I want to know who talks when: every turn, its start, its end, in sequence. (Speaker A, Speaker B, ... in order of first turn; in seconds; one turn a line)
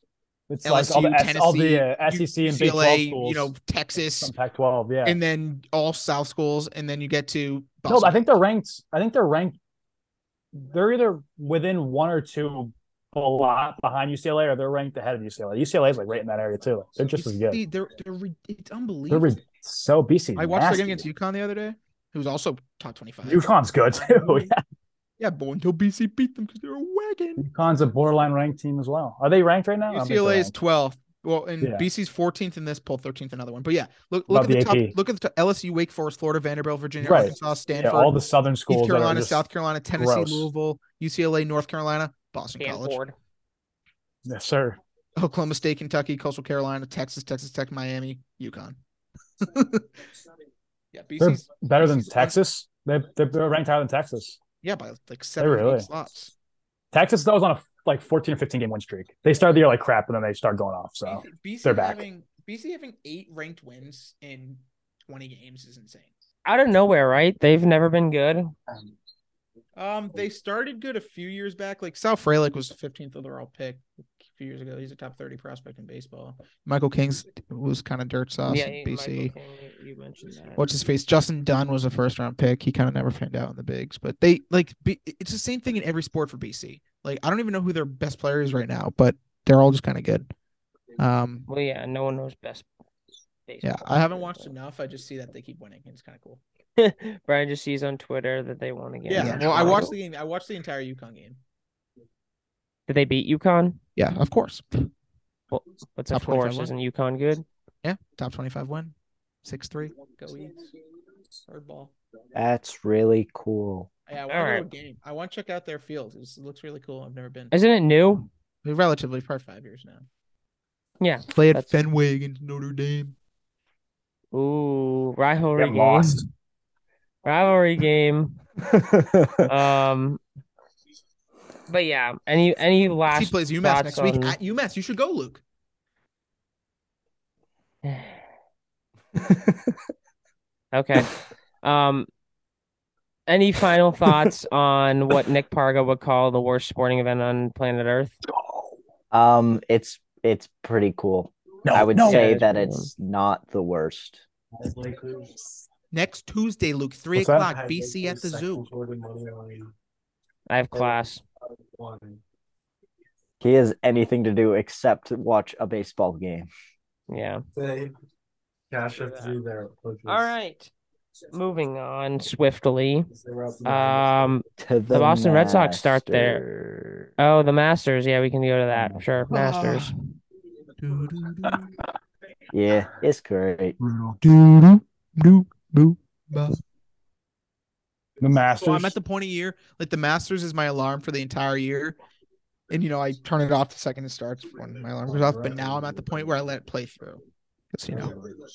Speaker A: 0.5-3.5
Speaker B: 0.6-4.3
Speaker A: 4.2-5.2
Speaker B: 5.0-8.2
Speaker A: 7.9-9.6
Speaker A: 10.5-17.6
Speaker B: 17.1-19.3
Speaker A: 19.1-21.0
Speaker B: 20.4-24.5
Speaker A: 23.2-24.6
Speaker B: 25.2-27.4
Speaker A: 27.4-30.5
Speaker B: 29.9-38.2
Speaker A: 31.6-31.9
Speaker A: 34.3-34.9
Speaker A: 37.0-39.4
Speaker B: 38.7-43.0
Speaker A: 39.9-40.5
Speaker C: 42.5-43.1
Speaker A: 44.2-44.8
Speaker B: 45.1-48.8
Speaker B: 49.4-49.9
Speaker B: 50.9-52.4
Speaker A: 51.2-54.4
Speaker B: 54.6-56.3
Speaker A: 55.4-55.9
Speaker A: 56.9-62.0
Speaker B: 61.0-66.1
Speaker C: 66.4-68.5
Speaker B: 69.8-79.3
Speaker C: 78.5-80.7
Speaker B: 80.6-90.3
Speaker B: 91.0-91.5
Speaker C: 91.5-92.7
Speaker C: 93.5-94.5
Speaker B: 93.6-96.4
Speaker C: 96.8-99.9
Speaker B: 99.1-101.4
Speaker C: 102.9-103.8
Speaker B: 104.0-104.9
Speaker C: 105.5-107.4
Speaker B: 106.1-106.7
Speaker B: 107.8-110.7
Speaker B: 111.5-111.9
Speaker D: 112.3-113.9
Speaker B: 114.1-117.5
Speaker C: 114.3-114.7
Speaker C: 117.5-118.3
Speaker B: 118.6-120.0
Speaker C: 121.0-121.8
Speaker B: 121.3-123.2
Speaker C: 124.3-126.2
Speaker A: 125.6-126.2
Speaker C: 127.2-128.4
Speaker D: 128.7-129.5
Speaker C: 129.4-130.2
Speaker C: 131.7-134.4
Speaker B: 133.1-135.4
Speaker C: 137.8-138.2
Speaker C: 140.7-142.1
Speaker C: 143.3-148.2
Speaker A: 148.4-148.7
Speaker D: 149.1-154.2
Speaker A: 151.6-152.4
Speaker C: 151.9-152.9
Speaker E: 154.6-155.5
Speaker B: 155.9-158.7
Speaker A: 157.1-157.5
Speaker E: 157.4-159.7
Speaker C: 160.5-161.2
Speaker E: 160.7-161.0
Speaker E: 161.6-162.2
Speaker D: 163.4-166.5
Speaker C: 167.1-167.4
Speaker E: 167.6-167.9
Speaker E: 168.7-170.3
Speaker C: 168.9-169.3
Speaker C: 170.1-170.7
Speaker C: 171.3-173.1
Speaker E: 173.1-174.5
Speaker C: 173.6-176.4
Speaker D: 174.6-177.1
Speaker C: 177.2-179.9
Speaker D: 178.8-179.1
Speaker B: 179.3-180.1
Speaker B: 180.8-181.7
Speaker D: 182.5-183.7
Speaker A: 183.8-184.2
Speaker B: 184.2-186.6
Speaker A: 188.2-188.9
Speaker B: 188.6-192.0
Speaker B: 192.7-197.2
Speaker E: 195.1-196.0
Speaker B: 197.7-198.1